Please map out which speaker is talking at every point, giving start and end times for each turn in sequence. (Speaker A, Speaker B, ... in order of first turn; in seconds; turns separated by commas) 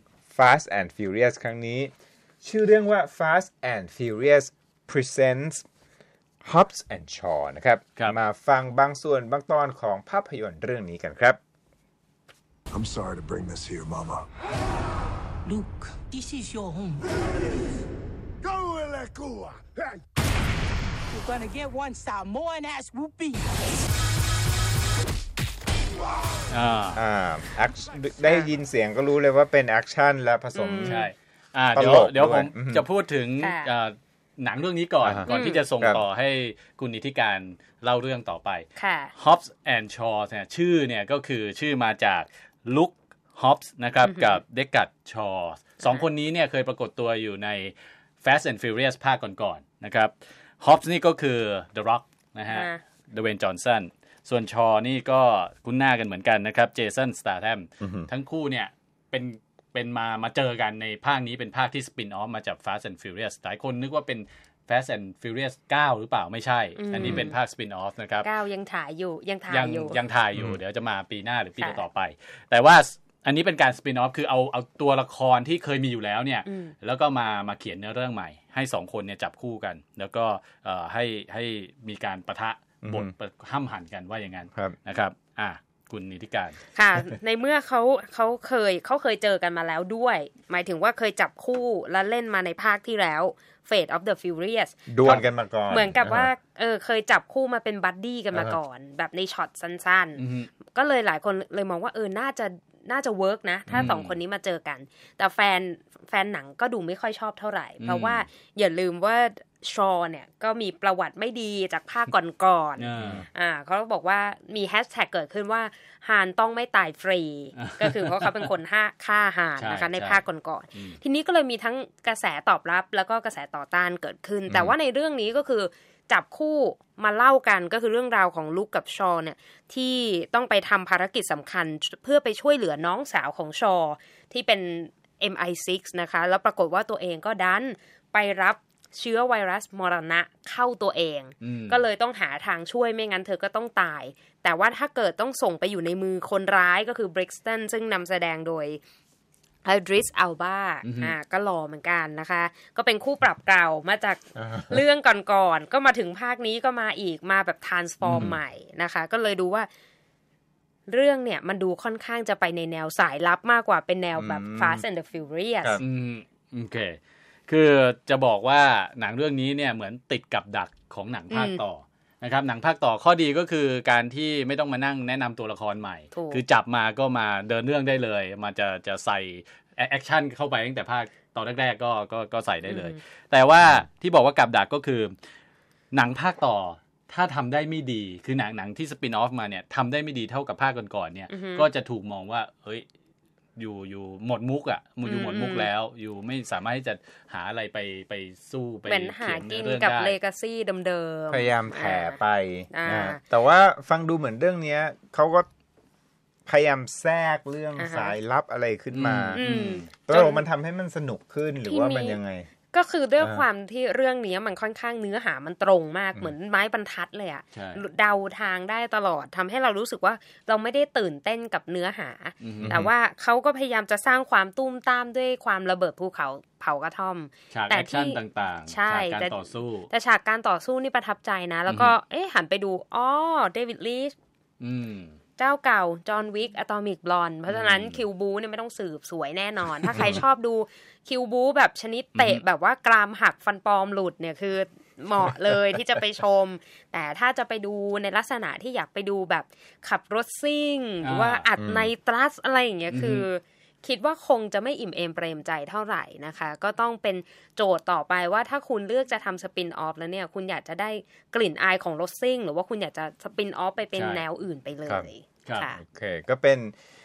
Speaker A: 0.3-1.9, Speaker A: 2.4-5.6, Speaker A: 6.4-11.4, Speaker B: 12.7-14.3, Speaker C: 15.4-17.1, Speaker B: 18.4-20.0, Speaker C: 21.1-23.5, Speaker D: 26.5-27.0, Speaker A: 26.9-31.1, Speaker E: 30.5-31.1, Speaker D: 30.8-38.6, Speaker A: 31.7-32.9, Speaker E: 33.4-33.7, Speaker A: 35.0-36.0, Speaker E: 35.3-35.6, Speaker E: 38.8-39.1, Speaker D: 39.1-68.3, Speaker E: 44.0-44.4, Speaker E: 52.5-52.8, Speaker A: 57.8-58.1, Speaker E: 66.8-67.3, Speaker A: 67.0-67.3, Speaker E: 68.2-70.0, Speaker D: 69.5-86.6, Speaker E: 71.6-71.8, Speaker E: 76.5-76.7, Speaker A: 82.8-83.1, Speaker E: 86.7-94.8, Speaker A: 94.9-96.3, Speaker E: 95.7-148.8, Speaker D: 100.2-100.5, Speaker D: 103.7-104.2, Speaker D: 107.8-108.2, Speaker D: 112.8-113.2, Speaker D: 117.5-118.5, Speaker D: 119.6-120.2, Speaker D: 141.4-141.8, Speaker E: 149.6-159.7, Speaker D: 150.8-151.2, Speaker A: 154.4-154.8, Speaker A: 158.0-158.4, Speaker E: 160.9-165.8, Speaker A: 164.2-164.8, Speaker D: 165.8-185.1, Speaker E: 171.3-171.6, Speaker E: 176.1-176.4, Speaker E: 182.7-183.0, Speaker D: 185.9-192.8, Speaker E: 191.3-191.7, Speaker D: 193.6-200.2, Speaker E: 195.0-195.7, Speaker E: 198.8-202.2, Speaker A: 201.3-205.5, Speaker E: 202.7-203.2, Speaker A: 206.4-212.5, Speaker E: 207.8-208.2, Speaker D: 208.9-209.8, Speaker E: 209.3-210.5, Speaker E: 211.7-212.2, Speaker E: 212.7-234.1, Speaker A: 213.2-213.4, Speaker D: 217.5-217.8, Speaker D: 222.4-222.8, Speaker A: 222.6-222.9, Speaker D: 227.5-229.9, Speaker D: 231.7-231.9, Speaker D: 234.6-235.2, Speaker E: 235.4-265.8, Speaker D: 237.5-238.0, Speaker D: 242.1-242.4, Speaker D: 251.0-251.5, Speaker A: 251.6-251.9, Speaker D: 252.9-253.3, Speaker D: 263.9-264.2, Speaker A: 265.8-266.7